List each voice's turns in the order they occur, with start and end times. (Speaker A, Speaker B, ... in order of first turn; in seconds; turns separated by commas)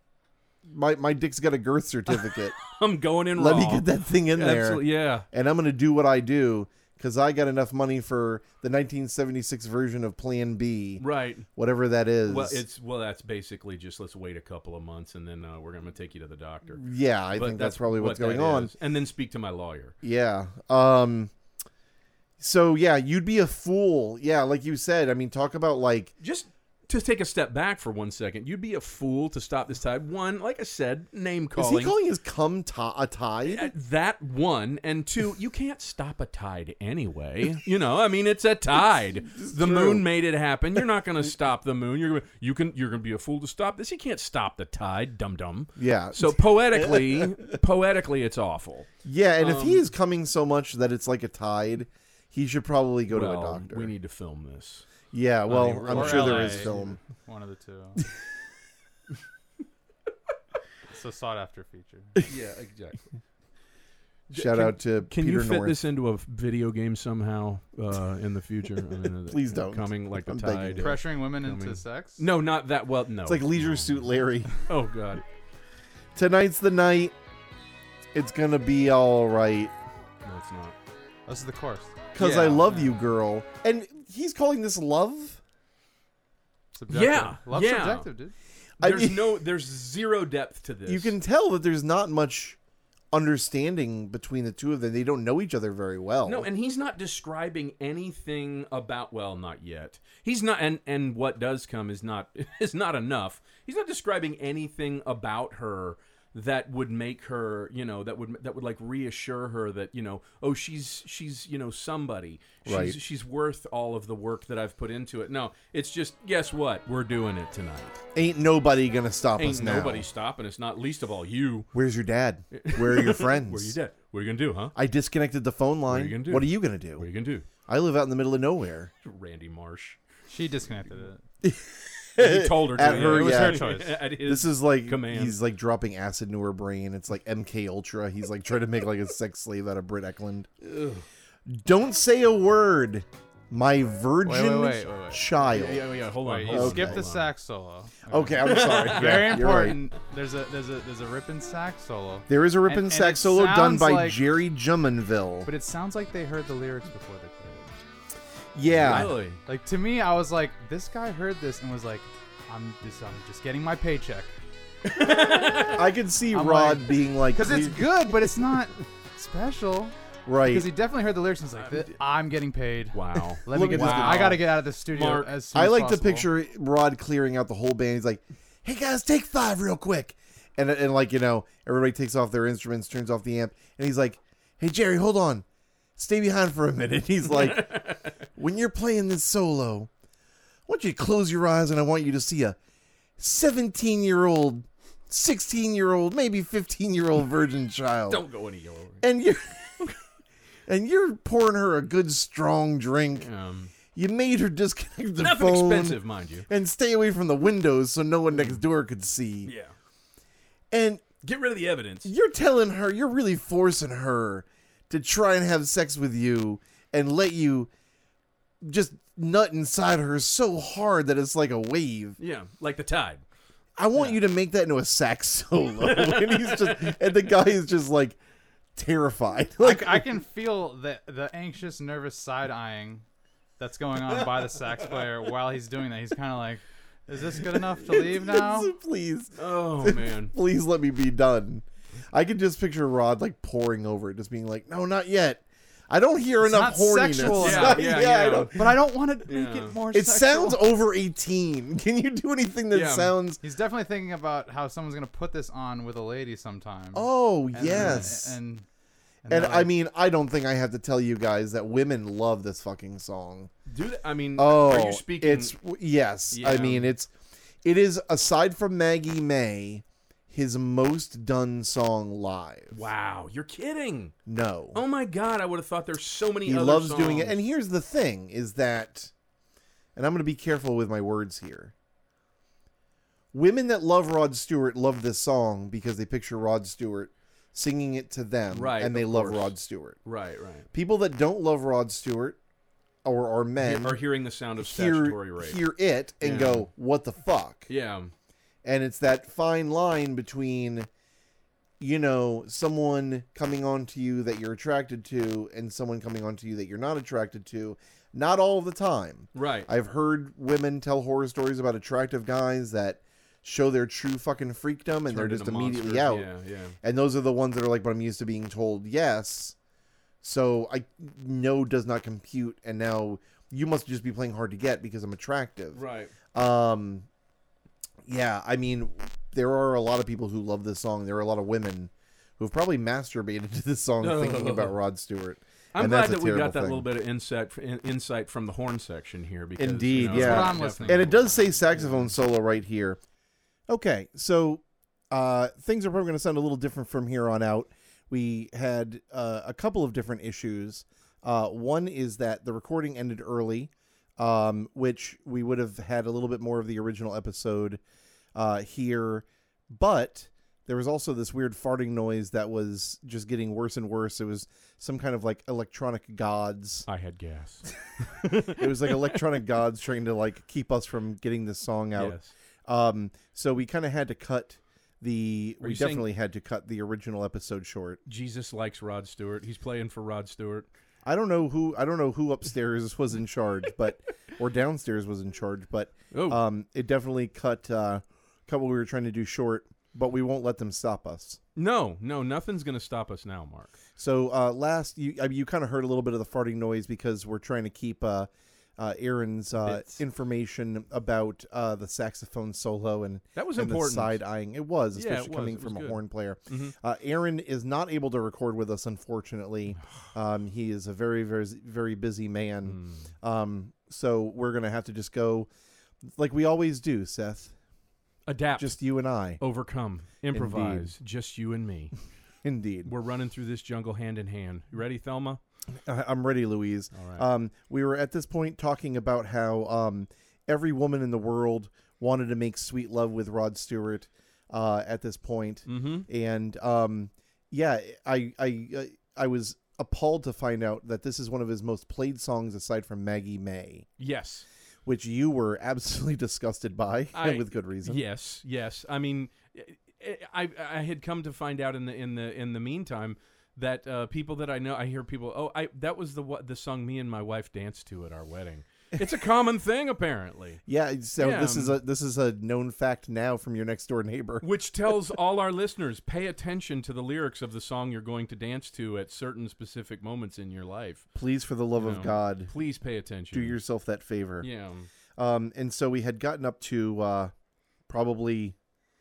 Speaker A: 0.6-2.6, Speaker B: 2.6-5.2, Speaker A: 3.4-11.0, Speaker B: 11.0-11.4, Speaker A: 11.6-12.6, Speaker B: 12.2-16.8, Speaker A: 16.7-18.7, Speaker B: 17.3-19.9, Speaker A: 20.0-21.3, Speaker A: 22.4-26.1, Speaker B: 26.2-31.9, Speaker A: 31.6-33.7, Speaker B: 33.4-49.9, Speaker A: 39.2-40.0, Speaker A: 45.8-47.5, Speaker A: 49.0-53.9, Speaker B: 53.1-54.9, Speaker A: 55.1-57.0, Speaker B: 55.5-57.0, Speaker C: 55.9-58.0, Speaker C: 60.9-62.2, Speaker B: 62.2-63.0, Speaker B: 64.3-74.0, Speaker A: 64.3-65.8, Speaker A: 69.2-71.0, Speaker C: 70.8-72.2, Speaker A: 73.2-74.6, Speaker B: 74.6-75.2, Speaker A: 76.1-77.1, Speaker A: 78.1-79.7, Speaker B: 80.2-80.8, Speaker C: 81.3-82.9, Speaker A: 82.1-85.4, Speaker B: 82.2-82.6, Speaker C: 86.7-88.3, Speaker B: 86.9-88.1, Speaker A: 88.8-89.4, Speaker B: 88.8-91.2, Speaker A: 90.8-92.6, Speaker A: 93.1-96.5, Speaker B: 96.2-118.0, Speaker A: 112.7-113.0, Speaker A: 118.1-120.1, Speaker B: 119.4-121.7, Speaker A: 121.7-123.8, Speaker B: 122.5-124.7, Speaker A: 124.7-127.1, Speaker B: 125.9-127.5, Speaker A: 127.7-128.9, Speaker B: 129.0-130.0, Speaker C: 130.3-131.2, Speaker A: 131.4-140.5, Speaker B: 132.2-135.4, Speaker C: 132.8-133.9, Speaker B: 140.6-141.0, Speaker A: 141.5-145.9, Speaker C: 144.2-145.4, Speaker B: 145.4-147.3, Speaker C: 146.2-154.2, Speaker A: 146.5-147.0, Speaker A: 148.1-149.8, Speaker B: 148.4-149.7, Speaker A: 152.3-155.5, Speaker C: 155.4-157.8, Speaker A: 158.5-159.1, Speaker B: 158.8-159.4, Speaker C: 159.4-164.3, Speaker B: 164.9-165.9, Speaker A: 165.0-168.1, Speaker C: 166.3-176.3, Speaker A: 170.2-170.7, Speaker B: 171.6-171.9, Speaker B: 172.9-175.3, Speaker A: 173.5-174.4, Speaker A: 175.5-185.4, Speaker A: 186.0-189.9, Speaker B: 187.3-188.1, Speaker A: 190.7-192.6, Speaker A: 193.2-198.2, Speaker B: 198.1-199.0, Speaker A: 199.0-200.0, Speaker A: 200.7-203.3, Speaker B: 203.2-203.7, Speaker A: 203.9-209.5, Speaker B: 205.2-206.5, Speaker B: 208.3-208.6, Speaker B: 209.4-209.7, Speaker A: 210.7-211.0, Speaker B: 211.2-212.1, Speaker A: 212.0-217.7, Speaker A: 218.6-222.2, Speaker B: 222.2-223.2, Speaker A: 223.8-228.2, Speaker B: 225.8-227.0, Speaker A: 228.8-230.1, Speaker C: 229.6-233.0, Speaker C: 233.6-238.7, Speaker B: 234.1-235.1, Speaker A: 237.8-248.7, Speaker B: 239.3-240.3, Speaker C: 246.4-250.6, Speaker B: 247.3-248.6, Speaker B: 249.3-249.8, Speaker A: 249.9-253.4, Speaker B: 252.7-253.1, Speaker C: 253.4-258.6, Speaker A: 256.9-258.3, Speaker B: 257.7-258.1, Speaker C: 259.2-259.7, Speaker A: 259.3-263.5, Speaker B: 263.7-265.6, Speaker A: 264.4-267.1, Speaker B: 266.3-266.9, Speaker A: 267.6-272.9, Speaker B: 272.7-274.1, Speaker A: 274.3-274.8, Speaker B: 274.7-277.4, Speaker A: 276.4-279.1, Speaker A: 279.9-281.7, Speaker A: 283.3-290.0, Speaker B: 288.5-289.5, Speaker B: 290.0-290.7, Speaker A: 290.7-292.4, Speaker A: 293.0-294.0, Speaker B: 293.6-295.6, Speaker A: 294.6-297.7, Speaker B: 296.2-296.7, Speaker B: 297.7-298.1, Speaker A: 298.6-300.9, Speaker A: 301.8-316.3, Speaker B: 309.3-309.7, Speaker B: 315.1-316.8, Speaker A: 316.8-319.6, Speaker A: 320.2-325.8, Speaker B: 325.7-326.1, Speaker A: 326.3-327.1, Speaker A: 328.0-336.9, Speaker B: 334.0-334.7, Speaker B: 335.7-342.1, Speaker A: 339.6-343.0, Speaker C: 340.0-341.1, Speaker A: 343.7-357.8, Speaker A: 358.3-366.9, Speaker B: 366.9-369.2, Speaker A: 368.5-378.0, Speaker B: 371.9-372.3, Speaker B: 375.6-376.1, Speaker B: 378.1-380.7, Speaker A: 381.0-391.4, Speaker B: 386.1-386.4, Speaker B: 391.6-393.8, Speaker A: 394.0-415.5, Speaker B: 399.6-400.0, Speaker B: 403.3-404.2, Speaker B: 404.9-406.7, Speaker B: 412.6-413.1, Speaker A: 416.1-417.5, Speaker B: 418.3-418.8, Speaker A: 418.6-419.4, Speaker B: 419.4-421.9, Speaker A: 420.3-420.9, Speaker A: 422.4-422.9, Speaker B: 422.8-425.4, Speaker A: 425.7-443.9, Speaker B: 426.9-427.2, Speaker B: 435.7-436.1, Speaker B: 444.0-444.4, Speaker A: 444.9-448.0, Speaker B: 447.1-460.6, Speaker A: 460.7-464.4, Speaker B: 461.2-461.8, Speaker B: 464.4-471.1, Speaker A: 471.1-472.5, Speaker B: 471.8-473.6, Speaker A: 473.3-474.5, Speaker B: 474.4-474.9, Speaker A: 475.2-477.3, Speaker A: 477.9-478.6